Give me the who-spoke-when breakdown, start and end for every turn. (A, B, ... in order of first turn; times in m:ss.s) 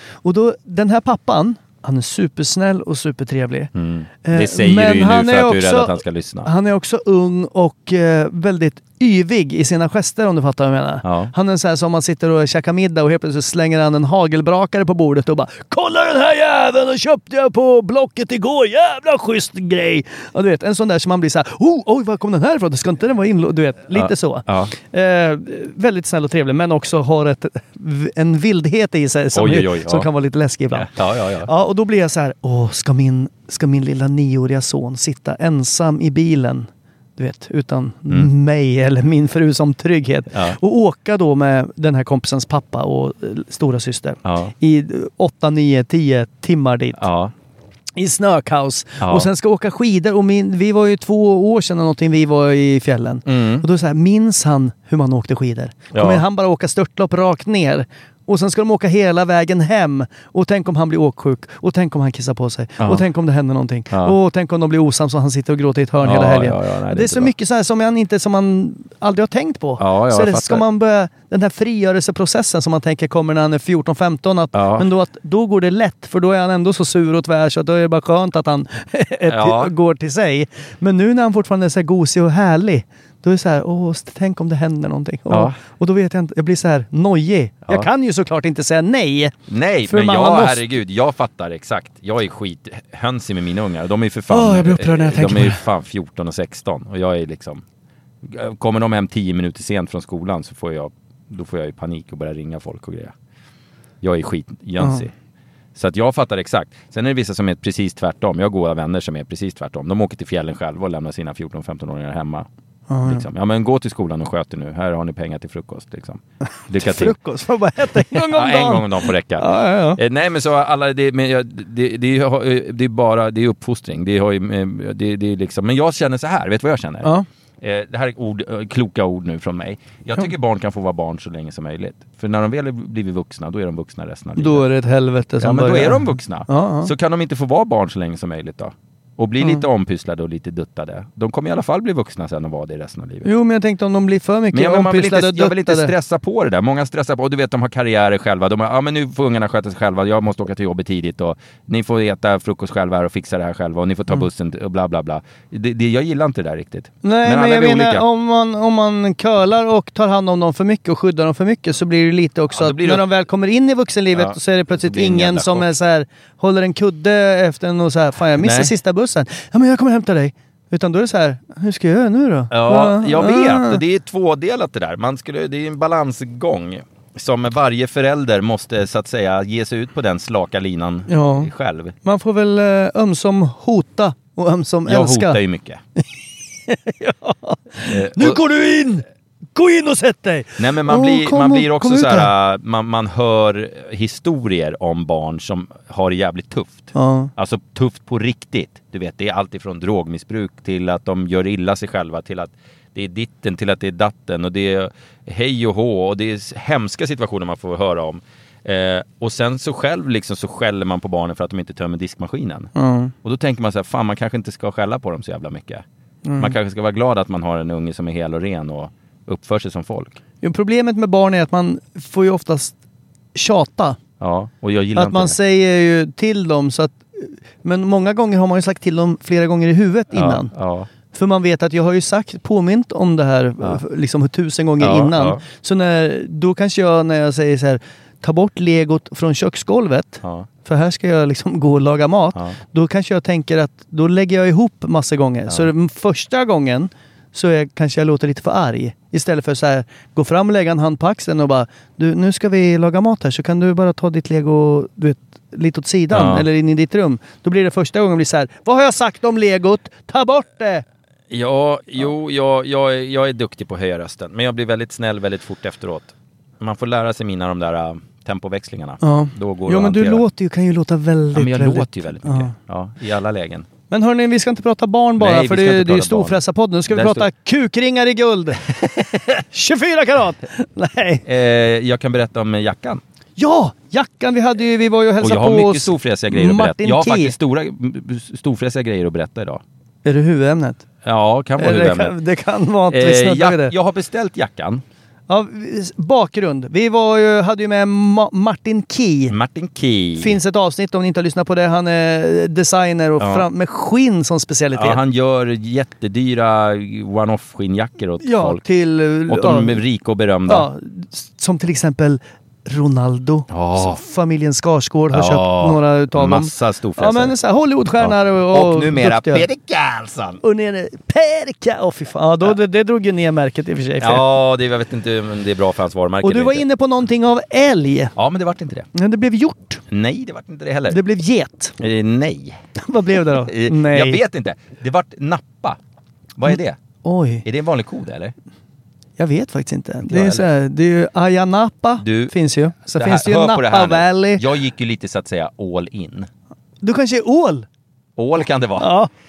0:00.2-0:03.7 A
0:03.8-0:06.5 B
0:04.2-0:30.9 A
0:11.0-0:11.3 B
0:23.9-0:24.7 B
0:29.3-0:30.1 B
0:30.7-0:31.5 B
0:31.4-0:47.0 A
0:40.3-0:40.6 B
0:44.2-0:44.5 B
0:47.0-0:47.3 B
0:48.0-1:29.3 A
0:49.0-0:49.3 B
0:53.3-0:53.7 B
0:55.9-0:56.2 B
1:02.8-1:03.0 B
1:03.9-1:04.2 B
1:06.0-1:07.3 B
1:09.8-1:10.6 B
1:14.5-1:14.9 B
1:19.3-1:19.7 B
1:25.3-1:25.6 B
1:29.5-1:37.6 B
1:29.9-1:30.6 A
1:34.3-1:35.6 A
1:38.2-1:43.2 B
1:44.0-1:45.1 B
1:44.8-1:45.0 A
1:45.8-1:52.5 B
1:52.9-1:53.2 A
1:53.0-1:57.2 B
1:56.7-2:00.0 A
1:57.9-2:14.7 B
2:14.4-2:16.9 A
2:15.4-2:23.3 B
2:23.2-2:25.9 A
2:24.5-2:38.0 B
2:37.0-2:53.8 A
2:42.5-2:43.1 B
2:44.1-2:45.7 B
2:48.4-2:48.7 B
2:52.5-3:02.0 B
3:01.1-3:01.5 A
3:02.0-3:05.4 A
3:04.9-3:05.8 B
3:06.7-3:12.3 A
3:07.9-3:08.4 B
3:10.6-3:32.7 B
3:16.9-3:17.3 A
3:32.8-3:33.1 A
3:33.2-3:35.8 B
3:36.2-3:36.6 A
3:36.4-3:40.2 B
3:40.4-3:42.8 A
3:43.4-3:44.0 A
3:44.2-3:45.4 B
3:45.0-3:50.5 A
3:50.1-3:50.9 B
3:51.1-4:20.8 A
3:54.8-3:55.4 B
4:00.2-4:00.5 B
4:16.1-4:16.5 B
4:21.3-4:30.2 B
4:29.0-4:32.5 A
4:31.3-4:33.7 B
4:33.9-4:38.7 A
4:35.2-4:37.3 B
4:38.8-4:39.4 B
4:39.5-4:41.2 A
4:41.2-4:43.0 B
4:43.4-4:47.4 A
4:45.2-4:49.6 B
4:50.0-4:50.8 A
4:51.0-4:52.2 B
4:51.6-4:53.7 A
4:52.9-4:54.8 B
4:55.3-4:59.4 A
4:59.3-5:00.4 B
5:00.2-5:05.0 A
5:03.2-5:03.5 B
5:04.8-5:08.6 B
5:08.2-5:09.8 A
5:09.3-5:10.7 B
5:10.5-5:19.5 A
5:13.5-5:14.0 B
5:15.1-5:17.4 B
5:18.0-5:20.4 B
5:20.4-5:24.2 A
5:24.0-5:26.6 B
5:26.2-5:28.1 A
5:28.2-5:28.9 B
5:28.9-5:29.8 A
5:29.9-5:31.0 B
5:30.9-5:31.8 A
5:31.8-5:32.6 B
5:32.8-5:34.2 A
5:33.3-5:35.8 B
5:36.4-5:36.8 B
5:36.5-5:37.4 A
5:37.4-5:38.3 B
5:39.2-5:44.4 A
5:40.0-5:40.5 B
5:42.0-5:42.3 B
5:42.9-5:46.3 B
5:46.8-5:47.7 A
5:48.2-5:49.0 B
5:48.8-5:49.1 A